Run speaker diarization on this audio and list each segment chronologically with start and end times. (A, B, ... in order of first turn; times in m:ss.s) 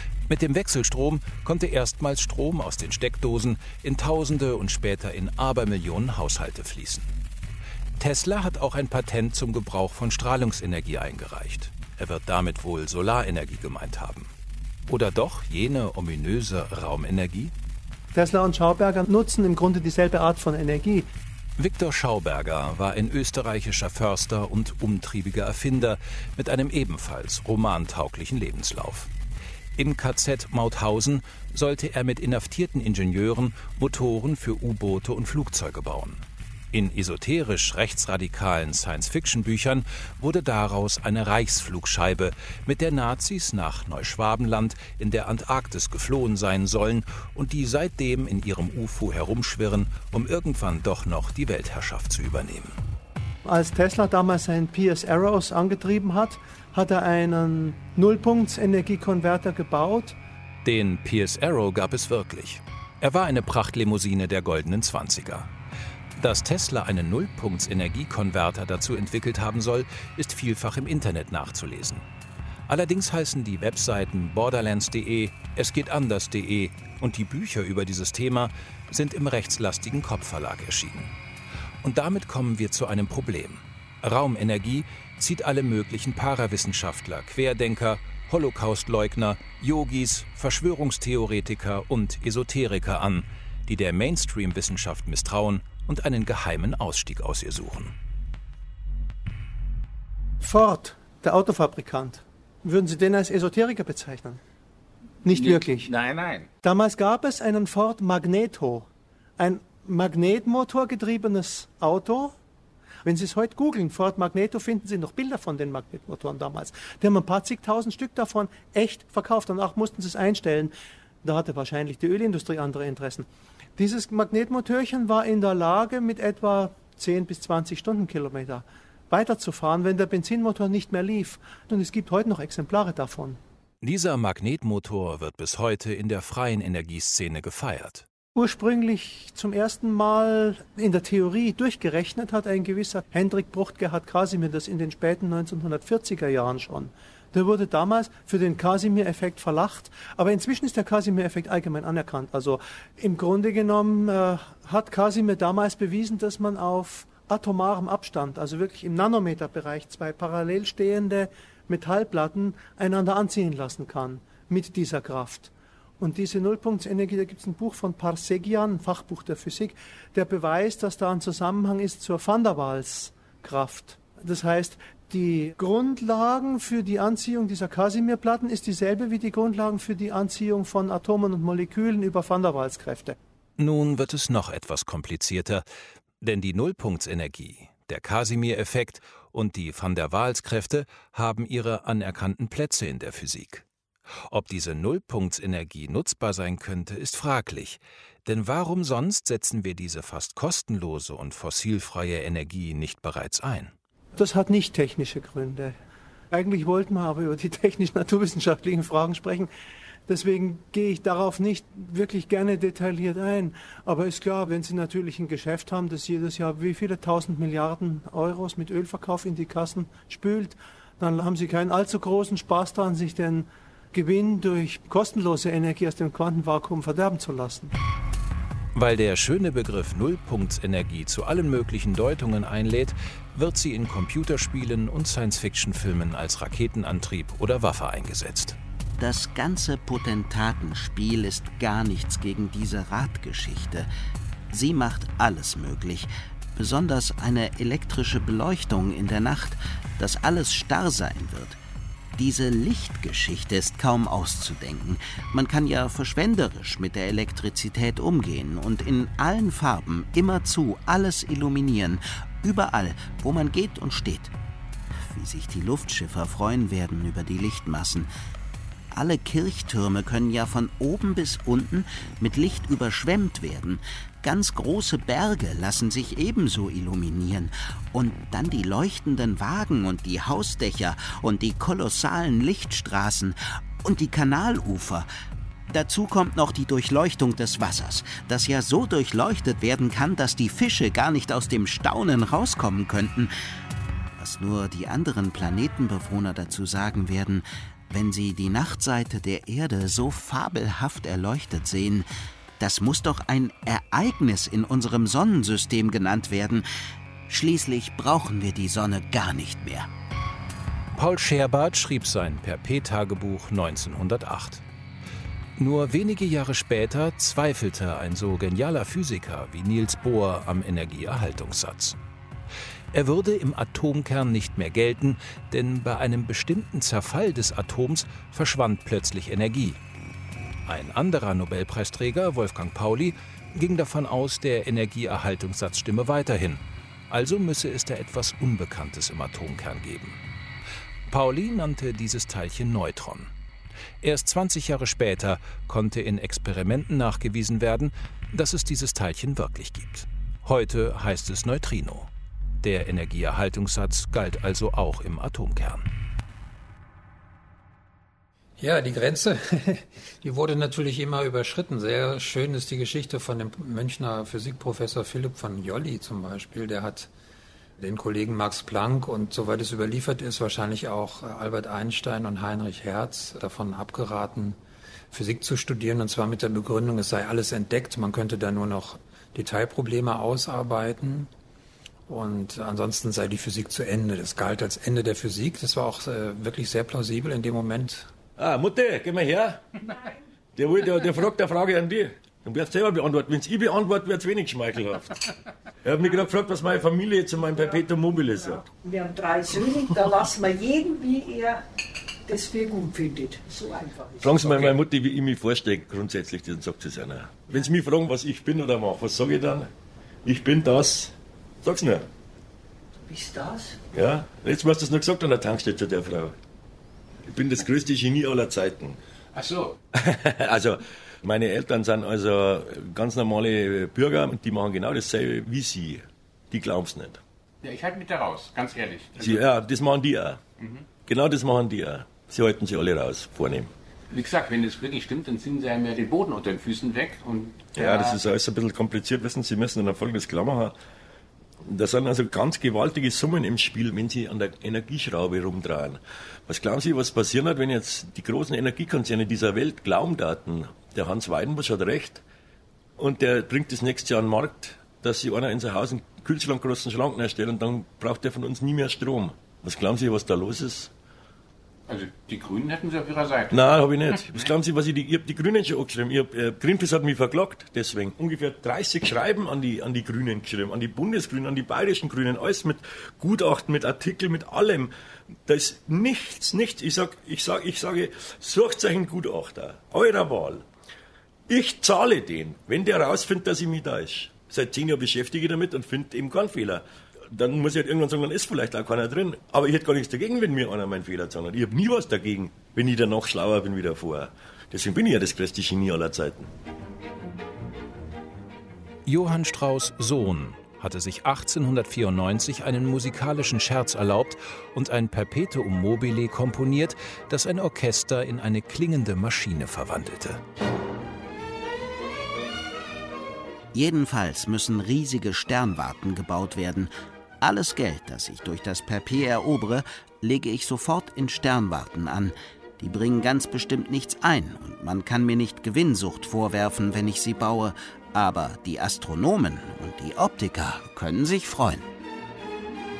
0:00.3-0:07.1 A
0:08.0-0:14.3 A
0:14.9-0:17.5 A
0:18.1-0:21.0 B
0:21.6-0:29.1 A
0:29.8-0:52.8 A
0:53.4-1:00.2 B
1:00.6-1:05.5 A
1:06.2-1:12.0 A
1:12.7-1:21.1 A
1:21.8-1:38.0 A
1:40.4-1:44.4 B
1:45.2-1:45.9 B
1:45.3-1:46.5 C
1:46.6-1:48.9 B
1:49.4-1:52.3 B
1:53.0-2:13.4 B
2:13.8-2:18.0 A
2:18.3-3:03.2 B
3:03.6-3:05.7 A
3:06.2-3:13.6 A
3:14.3-3:23.7 A
3:24.2-3:25.7 B
3:26.3-3:29.5 B
3:30.1-3:47.7 B
3:48.7-3:58.6 A
3:59.0-4:03.9 D
4:04.5-4:11.6 D
4:12.2-4:24.3 D
4:25.0-4:28.1 D
4:28.9-4:45.1 D
4:45.7-4:53.3 D
4:54.2-5:02.1 D
5:02.6-5:06.7 D
5:07.3-5:09.9 D
5:11.0-5:14.6 A
5:15.6-5:22.0 A
5:22.9-5:29.8 A
5:30.7-5:40.2 A
5:41.1-5:43.3 A
5:44.0-5:52.1 A
5:52.6-5:55.9 A
5:58.6-6:07.1 E
6:07.8-6:14.6 E
6:15.1-6:21.3 E
6:22.1-6:28.1 E
6:28.4-6:29.9 F
6:30.6-6:35.2 F
6:35.8-6:38.7 F
6:38.8-6:41.6 G
6:42.3-6:44.7 G
6:44.2-6:49.7 F
6:50.2-6:52.1 F
6:53.1-6:53.8 G
6:53.9-6:56.3 F
6:57.3-6:59.0 F
6:59.3-6:59.8 C
6:59.9-7:07.2 F
7:07.6-7:09.4 C
7:09.2-7:10.4 F
7:10.6-7:10.8 C
7:11.0-7:13.7 F
7:14.1-7:18.2 C
7:17.7-7:20.7 F
7:21.7-7:32.2 F
7:33.0-7:40.9 F
7:41.9-7:43.6 C
7:43.5-7:54.9 F
7:55.5-8:00.6 F
8:01.5-8:16.5 F
8:19.0-8:30.4 A
8:33.7-8:51.8 D